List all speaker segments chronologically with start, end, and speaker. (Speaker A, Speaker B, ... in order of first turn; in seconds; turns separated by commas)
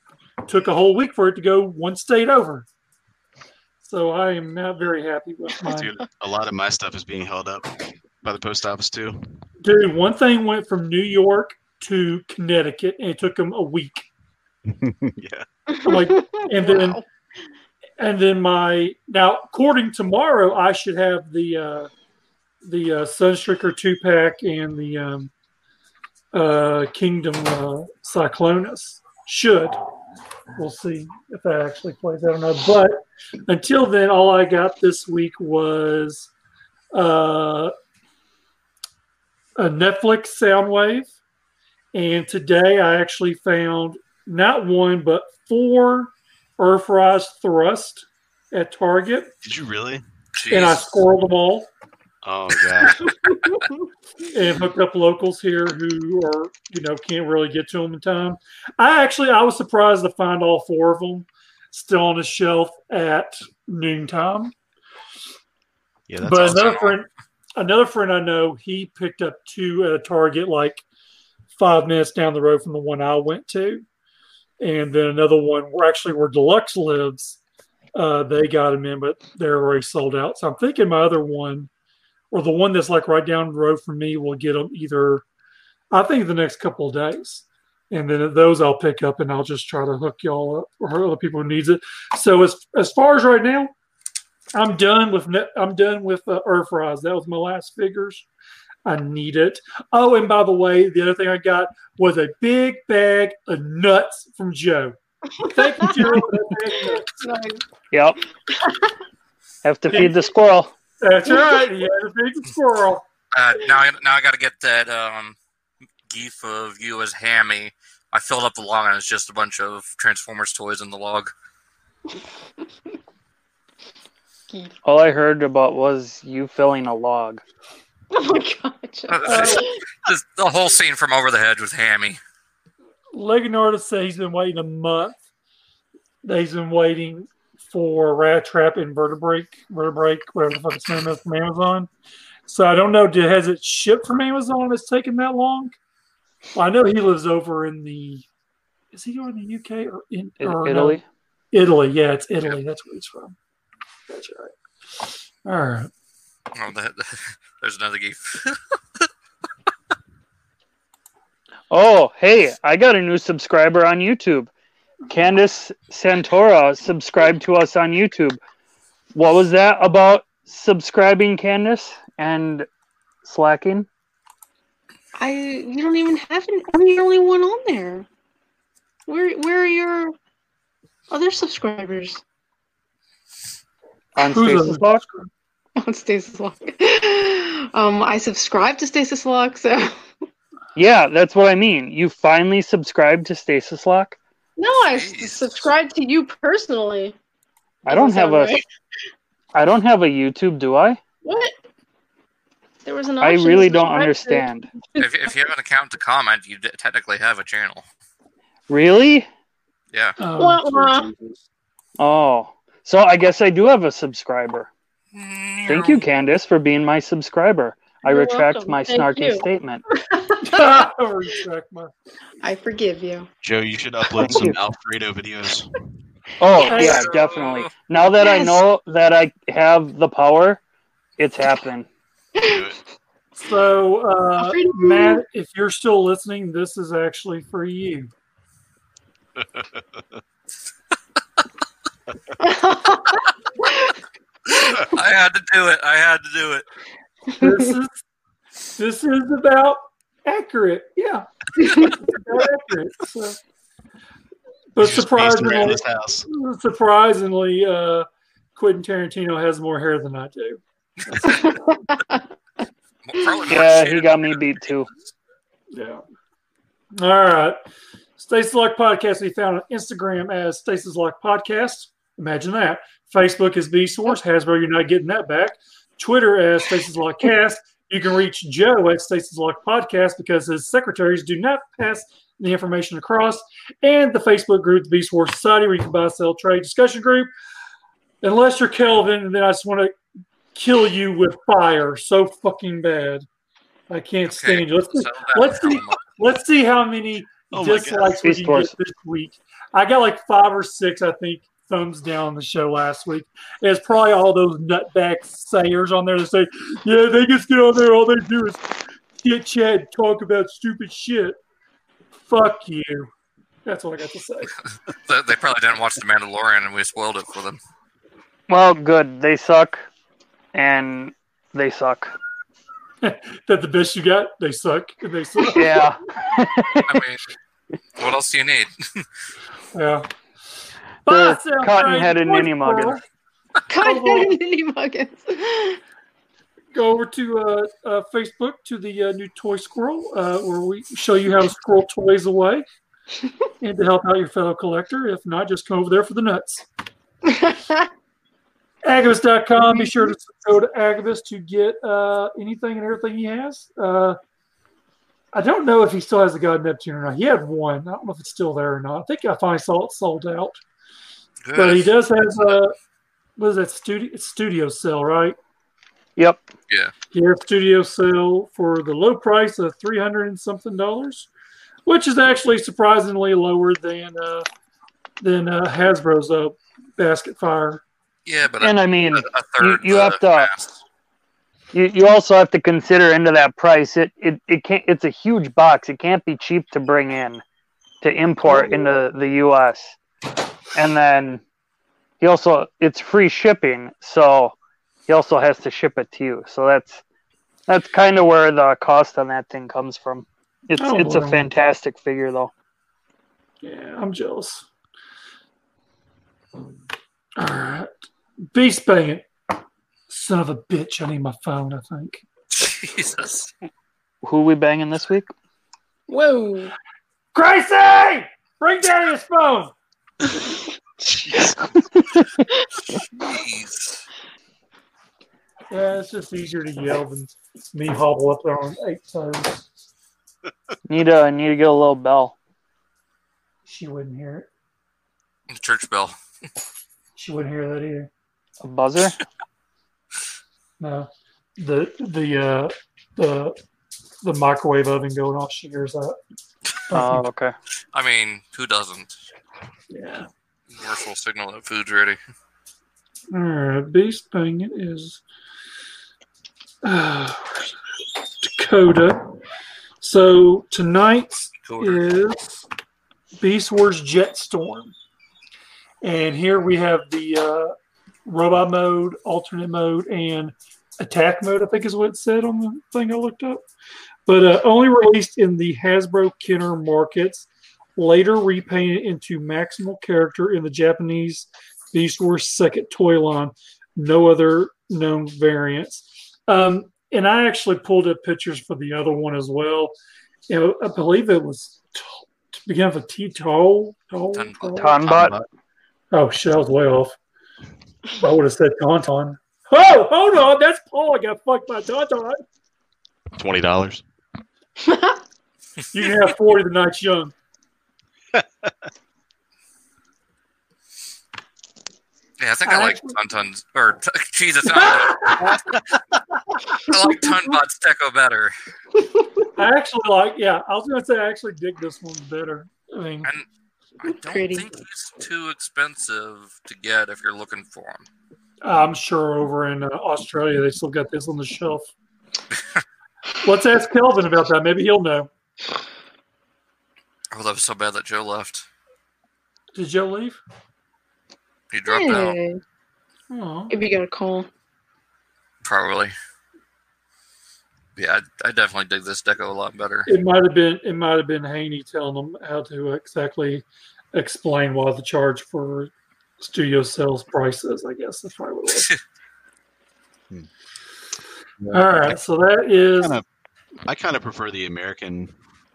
Speaker A: 0.5-2.6, Speaker A: 3.8-5.9, Speaker B: 5.7-9.4, Speaker A: 9.6-14.1, Speaker B: 14.7-15.4, Speaker C: 15.7-17.0, Speaker A: 15.8-17.0, Speaker A: 18.0-21.9, Speaker A: 22.6-25.3, Speaker A: 26.3-29.8, Speaker A: 30.5-36.3, Speaker A: 36.9-37.7, Speaker A: 39.6-41.1, Speaker A: 41.9-49.3, Speaker B: 49.4-50.0, Speaker D: 50.4-50.9, Speaker A: 50.5-51.7, Speaker B: 52.2-53.1, Speaker A: 54.3-64.5, Speaker B: 66.1-66.8, Speaker A: 66.2-70.8, Speaker D: 66.4-67.0, Speaker A: 71.5-73.8, Speaker A: 74.6-77.4, Speaker A: 77.9-81.7, Speaker A: 82.3-85.2, Speaker A: 85.9-93.7, Speaker A: 94.5-98.2, Speaker A: 98.8-107.1, Speaker C: 105.4-107.6, Speaker E: 107.9-108.2, Speaker C: 108.5-108.9, Speaker E: 109.6-110.7, Speaker A: 111.0-113.0, Speaker C: 111.3-111.7, Speaker D: 113.3-115.4, Speaker D: 116.1-121.3, Speaker E: 124.8-127.4, Speaker C: 128.1-129.8, Speaker D: 129.1-132.2, Speaker A: 129.2-129.7, Speaker A: 133.1-135.2, Speaker A: 136.2-141.9, Speaker A: 142.5-145.8, Speaker A: 146.5-148.2, Speaker A: 148.9-151.0, Speaker E: 150.4-151.0, Speaker A: 151.5-153.4, Speaker A: 154.1-155.9, Speaker D: 156.5-158.6, Speaker E: 161.7-164.5, Speaker E: 165.1-168.4, Speaker E: 169.1-172.7, Speaker E: 173.2-173.9, Speaker C: 175.2-178.1, Speaker C: 179.1-180.1, Speaker C: 181.1-182.2, Speaker E: 184.2-185.0, Speaker A: 184.2-185.3, Speaker C: 185.8-190.0, Speaker E: 190.8-194.2, Speaker C: 194.6-197.2, Speaker D: 194.8-195.7, Speaker E: 197.8-198.6, Speaker C: 197.9-198.6, Speaker E: 199.5-201.0, Speaker C: 201.2-201.6, Speaker C: 202.8-205.1, Speaker E: 203.2-204.7, Speaker D: 205.0-207.8, Speaker E: 208.7-209.3, Speaker D: 209.9-210.2, Speaker A: 210.2-211.4, Speaker C: 210.3-211.1, Speaker E: 212.0-214.7, Speaker D: 215.1-216.1, Speaker E: 215.7-219.8, Speaker C: 218.0-220.9, Speaker A: 220.4-221.9, Speaker C: 222.4-223.3, Speaker B: 223.4-225.7, Speaker E: 224.2-224.6, Speaker E: 226.4-230.6, Speaker C: 226.7-226.9, Speaker A: 226.7-227.1, Speaker D: 226.7-227.7, Speaker C: 228.1-228.6, Speaker E: 231.2-231.9, Speaker C: 232.3-232.7, Speaker B: 232.4-232.8, Speaker A: 233.4-238.1, Speaker C: 234.4-235.2, Speaker B: 239.4-240.0, Speaker C: 242.4-243.9, Speaker D: 244.6-246.6, Speaker A: 247.4-248.0, Speaker C: 247.4-247.7, Speaker A: 248.8-253.4, Speaker C: 251.6-251.9, Speaker A: 254.7-261.7, Speaker B: 254.8-256.3, Speaker C: 261.3-262.2, Speaker D: 263.1-264.6, Speaker E: 263.5-264.9, Speaker A: 265.7-266.0, Speaker A: 266.9-267.6, Speaker A: 268.2-287.3, Speaker A: 288.2-290.0, Speaker A: 290.5-293.2, Speaker A: 293.9-308.6, Speaker D: 294.2-296.0, Speaker B: 297.5-298.2, Speaker E: 298.2-298.7, Speaker A: 309.2-311.4, Speaker A: 312.3-313.1, Speaker A: 313.6-314.5, Speaker D: 315.1-317.6, Speaker E: 318.5-319.9, Speaker E: 320.5-322.1, Speaker A: 323.0-325.7, Speaker E: 325.5-327.0, Speaker D: 326.9-327.2, Speaker D: 328.0-329.0, Speaker A: 329.7-330.1, Speaker A: 331.0-333.0, Speaker E: 331.1-333.0, Speaker C: 333.7-335.8, Speaker A: 333.8-334.3, Speaker A: 336.7-342.6, Speaker A: 343.6-346.6, Speaker C: 347.2-347.9, Speaker A: 348.8-354.2, Speaker C: 349.6-350.0, Speaker A: 355.3-360.6, Speaker D: 361.4-362.6, Speaker A: 361.5-362.7, Speaker A: 363.4-365.4, Speaker E: 366.2-366.4, Speaker A: 367.1-371.3, Speaker A: 371.9-374.5, Speaker A: 375.2-377.8, Speaker D: 378.2-380.8, Speaker E: 378.6-380.5, Speaker E: 381.7-387.4, Speaker E: 388.0-390.0, Speaker A: 388.5-388.9, Speaker E: 390.7-391.4, Speaker E: 392.2-394.5, Speaker E: 395.1-397.0, Speaker E: 397.7-402.5, Speaker A: 400.8-401.5, Speaker A: 403.6-404.6, Speaker A: 407.4-407.9, Speaker A: 408.5-409.3, Speaker A: 410.1-412.2, Speaker D: 412.5-413.5, Speaker E: 414.2-415.3, Speaker C: 416.1-416.7, Speaker A: 417.3-419.7, Speaker B: 421.2-421.8, Speaker D: 423.2-424.1, Speaker A: 425.7-429.7, Speaker E: 430.9-432.3, Speaker A: 433.7-434.5, Speaker D: 435.5-436.1, Speaker A: 437.2-438.1, Speaker E: 438.6-439.2, Speaker A: 440.8-443.6, Speaker A: 444.2-446.2, Speaker A: 446.9-447.2, Speaker E: 446.9-447.5, Speaker D: 447.9-449.1, Speaker A: 449.9-450.3, Speaker D: 450.7-452.2, Speaker A: 453.3-455.2, Speaker A: 456.8-457.7, Speaker A: 458.4-459.4, Speaker A: 460.0-462.6, Speaker D: 461.6-462.0, Speaker A: 463.4-464.9, Speaker A: 466.0-467.7, Speaker A: 468.2-473.6, Speaker A: 474.2-489.9, Speaker A: 490.5-495.0, Speaker D: 494.3-495.3, Speaker E: 494.8-495.4, Speaker B: 495.1-495.5, Speaker A: 496.1-497.2, Speaker A: 498.1-502.4, Speaker B: 503.3-504.0, Speaker C: 504.8-505.2, Speaker A: 505.9-507.3, Speaker B: 508.3-508.7, Speaker D: 512.4-515.2, Speaker A: 512.6-513.2, Speaker A: 514.7-515.6, Speaker B: 515.4-516.0, Speaker D: 516.9-518.5, Speaker A: 519.5-523.3, Speaker D: 524.0-528.0, Speaker C: 524.0-524.7, Speaker A: 528.6-531.9, Speaker A: 533.4-535.3, Speaker D: 537.3-538.7, Speaker A: 539.7-540.4, Speaker D: 541.7-542.4, Speaker C: 541.8-542.6, Speaker A: 543.3-543.7, Speaker C: 543.7-544.5, Speaker D: 545.6-546.1, Speaker D: 548.0-550.1, Speaker A: 550.1-558.9, Speaker B: 561.6-562.2, Speaker A: 561.7-563.2, Speaker B: 563.0-563.2, Speaker B: 563.9-565.3